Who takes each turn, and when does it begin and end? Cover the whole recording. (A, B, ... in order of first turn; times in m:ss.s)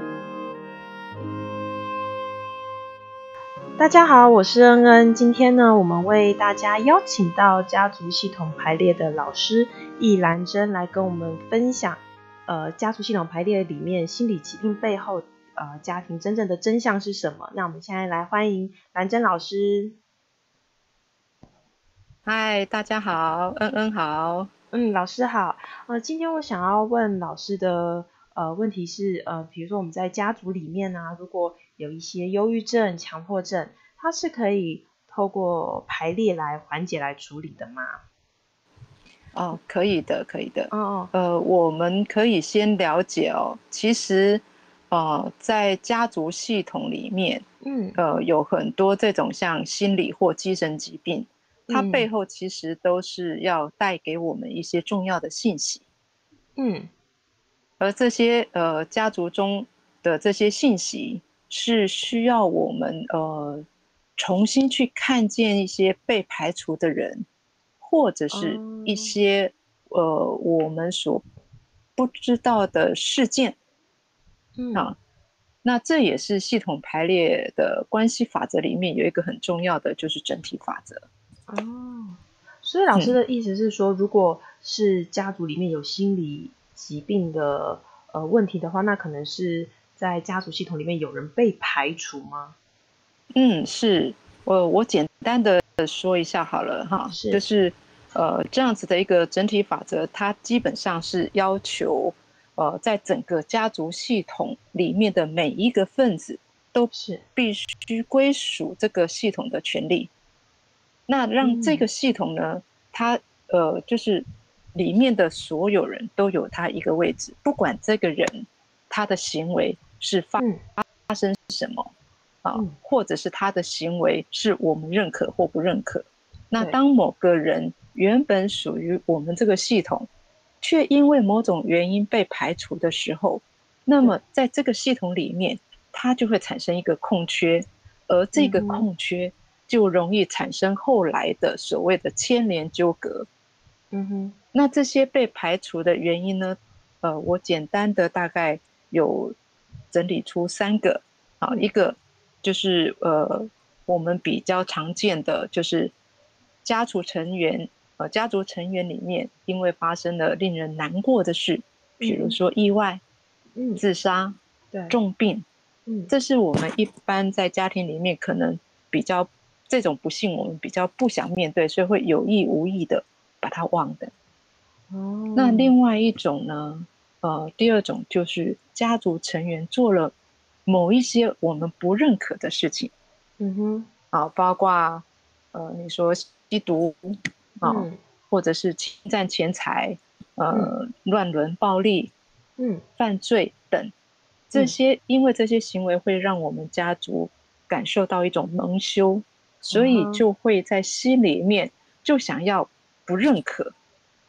0:03.8-0:20.0 A
0:22.2-0:24.5 B
0:24.7-0:38.0 A
0:39.3-0:47.4 B
0:40.7-0:41.1 A
0:47.6-0:48.0 A
0:48.0-0:55.8 B
0:51.7-0:52.1 A
0:56.6-0:56.9 A
0:57.8-1:03.6 B
1:04.2-1:07.2 B
1:07.8-1:11.2 B
1:08.3-1:09.2 A
1:12.0-1:13.6 B
1:14.6-1:14.9 A
1:15.6-1:21.0 B
1:21.5-1:32.6 A
1:33.3-1:50.1 B
1:37.1-1:37.4 A
1:46.9-1:47.2 A
1:51.1-2:00.4 B
1:51.4-1:51.8 A
2:01.1-2:01.9 B
2:02.4-2:10.1 B
2:10.6-2:23.3 B
2:18.3-2:18.9 A
2:23.9-2:24.4 A
2:24.5-2:29.4 B
2:29.9-2:35.9 B
2:36.6-2:43.0 B
2:42.0-2:42.4 A
2:43.6-2:43.8 A
2:43.8-2:44.4 B
2:44.9-2:45.4 B
2:46.1-2:54.1 B
2:54.9-2:55.7 A
2:55.3-3:00.1 B
3:00.6-3:02.9 B
3:03.4-3:03.9 A
3:04.1-3:12.1 B
3:07.6-3:08.0 A
3:12.6-3:12.8 A
3:13.0-3:13.9 B
3:14.5-3:23.7 B
3:19.7-3:20.2 A